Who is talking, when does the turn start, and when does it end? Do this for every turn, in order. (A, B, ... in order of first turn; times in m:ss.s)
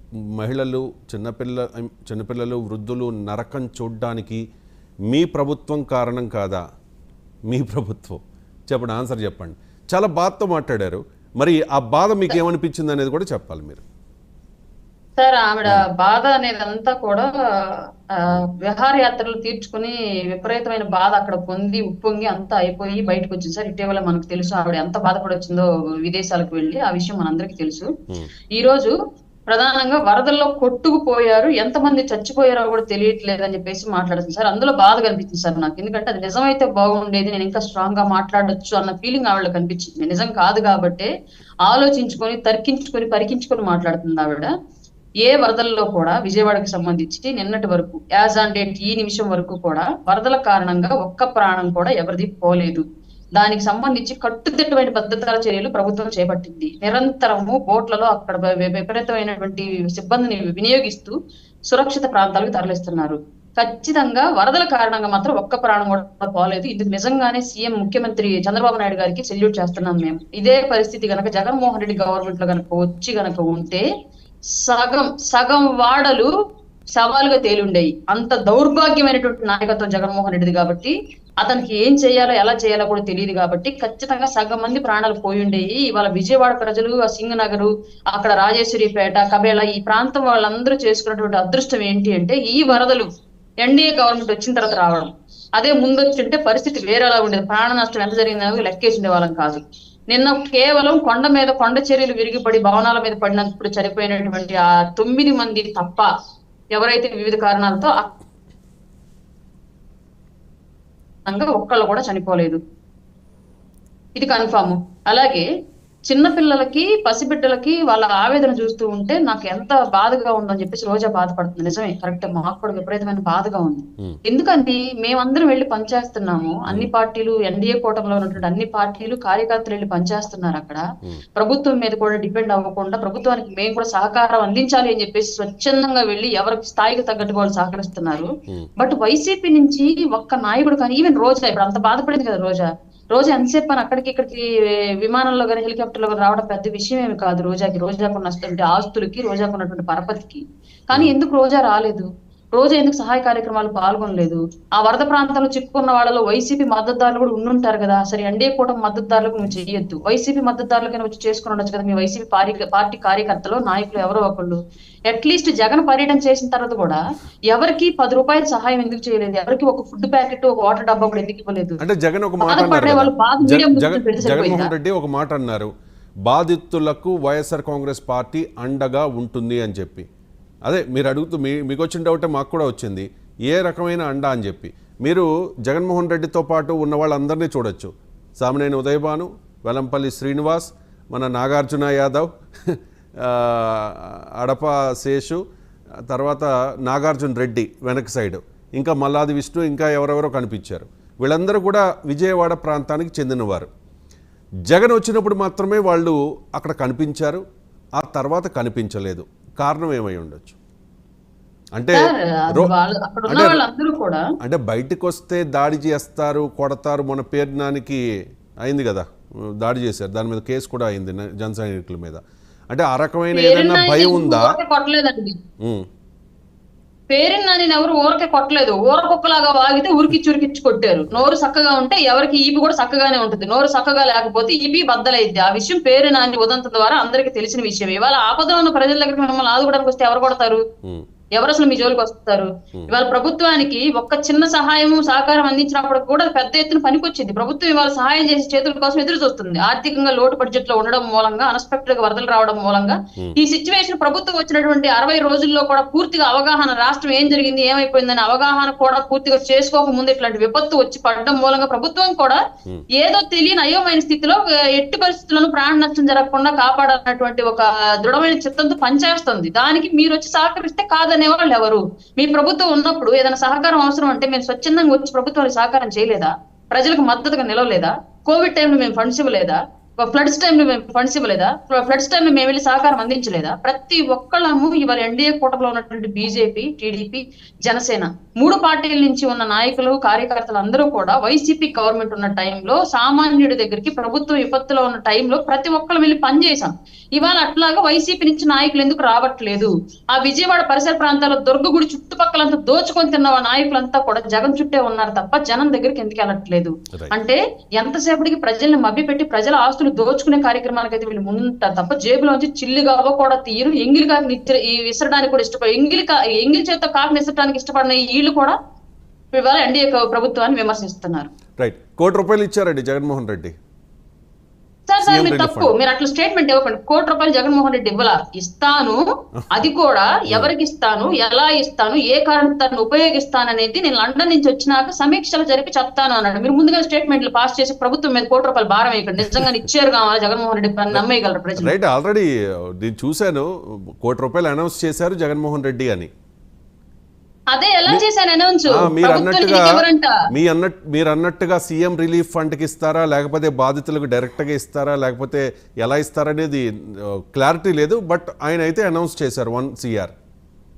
0:00.2-0:04.4 A
0:05.1-0:06.6 A
0:07.5-0:13.8 A
0:15.2-0:27.9 B
0:28.5-0:29.0 B
0:29.5-0:41.1 B
0:41.6-0:44.5 B
0:45.2-0:52.8 B
0:53.4-1:01.2 B
1:01.7-1:13.9 B
1:14.6-1:16.3 B
1:17.0-1:33.1 B
1:33.6-1:46.1 B
1:46.7-1:48.1 B
1:51.3-1:52.6 B
1:54.2-1:55.5 B
1:56.1-2:10.8 B
2:11.4-2:24.5 B
2:25.0-2:51.8 B
2:51.8-2:55.7 A
2:52.4-2:54.7 B
2:56.3-3:00.1 A
3:00.6-3:15.4 A
3:16.1-3:23.7 A
3:24.7-3:27.4 A
3:28.0-3:30.6 A
3:31.8-3:32.7 A
3:31.9-3:34.3 B
3:33.3-3:33.6 A
3:34.4-3:38.0 A
3:38.6-3:44.6 A
3:43.3-3:45.4 B
3:45.6-3:45.9 A
3:47.1-4:00.6 B
4:01.4-4:22.4 B
4:22.9-5:18.6 B
5:19.3-5:21.3 B
5:21.6-5:23.6 A
5:24.9-5:41.7 B
5:25.0-5:25.7 A
5:41.6-5:46.1 A
5:47.5-5:50.2 B
5:48.7-6:00.1 A